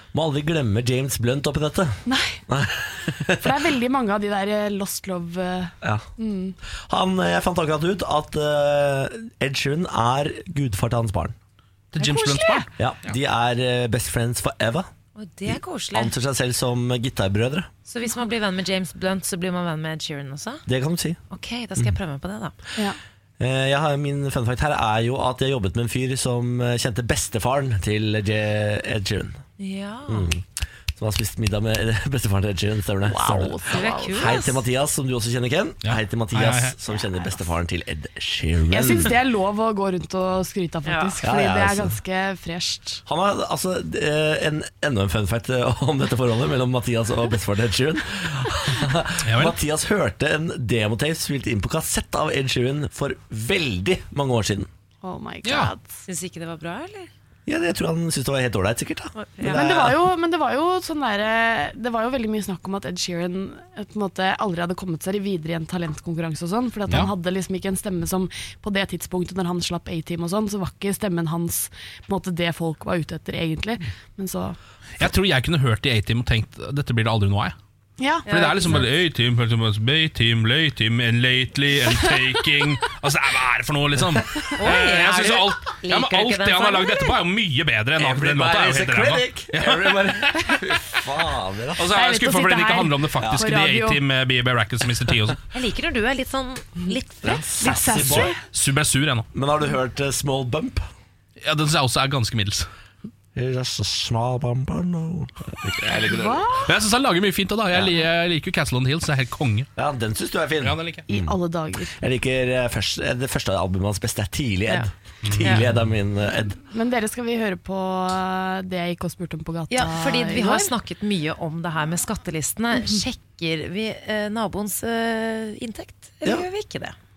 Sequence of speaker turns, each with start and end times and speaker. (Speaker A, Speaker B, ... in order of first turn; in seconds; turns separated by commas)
Speaker A: 0.1-3.5, Speaker B: 2.1-2.4, Speaker B: 3.4-6.6, Speaker A: 5.8-6.1, Speaker A: 6.9-11.3, Speaker C: 11.9-13.2, Speaker B: 12.0-12.7, Speaker A: 12.8-14.9, Speaker D: 15.2-16.1, Speaker A: 15.5-17.7, Speaker D: 17.9-20.6, Speaker A: 20.7-21.2, Speaker D: 21.3-22.6, Speaker A: 23.4-29.4, Speaker D: 29.6-30.3, Speaker A: 30.1-30.4, Speaker A: 31.0-39.1, Speaker B: 33.0-34.4, Speaker D: 33.7-34.6, Speaker C: 35.8-36.8, Speaker B: 38.7-43.0, Speaker D: 40.9-41.1, Speaker A: 41.2-42.0, Speaker A: 43.0-54.7, Speaker C: 49.2-49.6, Speaker B: 55.0-56.0, Speaker C: 55.4-55.7, Speaker D: 56.1-57.1, Speaker A: 57.5-59.9, Speaker D: 59.2-59.6, Speaker B: 59.5-74.6, Speaker C: 75.0-77.6, Speaker B: 78.0-78.8, Speaker D: 78.3-78.9, Speaker C: 78.3-90.5, Speaker D: 84.6-87.2, Speaker A: 88.0-91.9, Speaker C: 91.8-95.4, Speaker B: 91.9-94.0, Speaker A: 93.2-93.5, Speaker D: 95.5-97.5, Speaker A: 97.2-98.3, Speaker B: 97.6-98.4, Speaker C: 97.9-99.3, Speaker A: 99.3-100.8, Speaker C: 101.4-102.7, Speaker A: 103.3-106.6, Speaker B: 105.9-106.8, Speaker C: 106.6-109.7, Speaker A: 107.7-108.0, Speaker A: 109.8-111.4, Speaker C: 110.6-111.1, Speaker B: 111.1-112.0, Speaker A: 111.9-116.6, Speaker C: 115.2-115.5, Speaker B: 116.7-120.8, Speaker D: 119.7-127.0